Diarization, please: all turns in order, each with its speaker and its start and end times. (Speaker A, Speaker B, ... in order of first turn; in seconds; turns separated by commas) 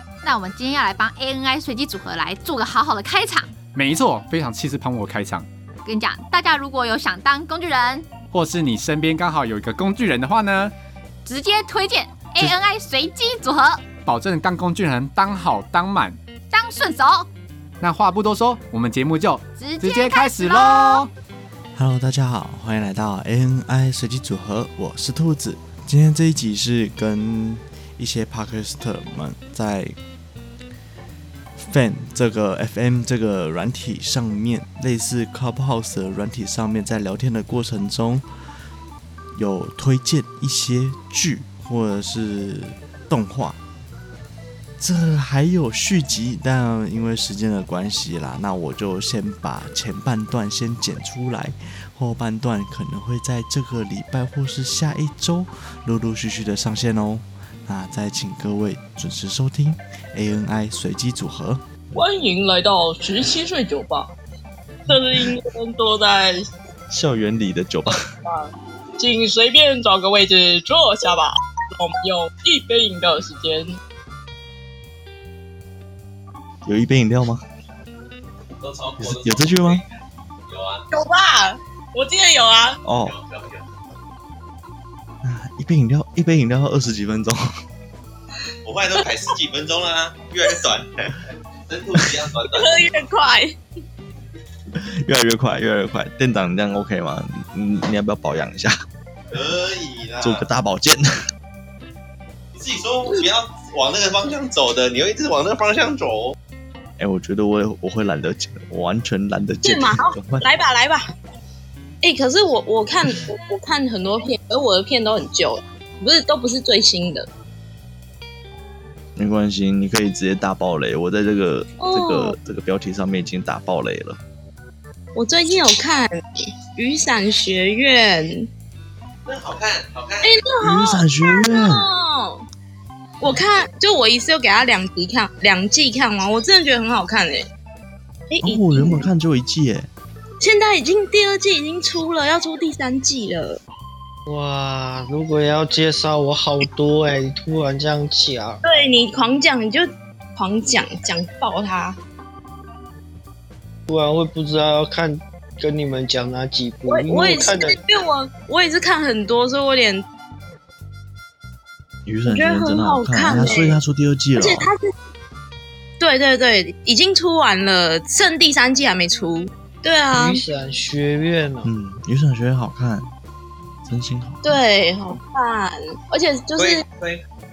Speaker A: 0.2-3.6, Speaker B: 3.6-5.5, Speaker A: 5.8-8.1, Speaker B: 8.3-10.7, Speaker A: 11.2-13.9, Speaker B: 13.9-16.2, Speaker A: 16.5-17.3, Speaker B: 17.8-21.1, Speaker A: 19.6-21.1, Speaker C: 21.7-30.0, Speaker C: 31.7-38.2, Speaker C: 39.3-43.6, Speaker C: 44.8-62.0, Speaker D: 61.9-64.1, Speaker D: 64.9-66.4, Speaker C: 66.9-68.0, Speaker D: 67.9-73.7, Speaker C: 76.6-77.4, Speaker E: 78.6-79.9, Speaker C: 79.0-79.8, Speaker E: 80.5-80.8, Speaker D: 80.9-82.8, Speaker C: 82.8-83.1, Speaker E: 83.0-83.6, Speaker C: 85.2-87.4, Speaker E: 88.6-91.1, Speaker E: 91.7-92.9, Speaker D: 92.5-93.6, Speaker C: 94.8-98.8, Speaker E: 99.3-100.5, Speaker C: 100.2-101.0, Speaker E: 102.5-106.3, Speaker C: 107.0-110.5, Speaker D: 109.6-111.0, Speaker D: 112.0-117.3, Speaker C: 119.2-124.2, Speaker D: 121.8-122.3, Speaker D: 125.1-126.1, Speaker D: 126.7-128.5, Speaker E: 129.3-130.3, Speaker D: 130.2-132.4, Speaker C: 130.6-131.8, Speaker D: 133.2-137.4, Speaker D: 138.3-139.1, Speaker C: 138.4-139.9, Speaker D: 140.4-143.6, Speaker F: 144.3-148.6, Speaker D: 148.6-152.0, Speaker F: 153.9-157.8, Speaker D: 156.9-160.0, Speaker C: 162.0-164.7, Speaker D: 162.2-163.8, Speaker D: 164.4-164.8, Speaker D: 166.0-170.4, Speaker F: 170.1-171.7, Speaker C: 171.6-173.1, Speaker C: 173.8-174.6, Speaker D: 174.4-176.8, Speaker E: 176.6-177.2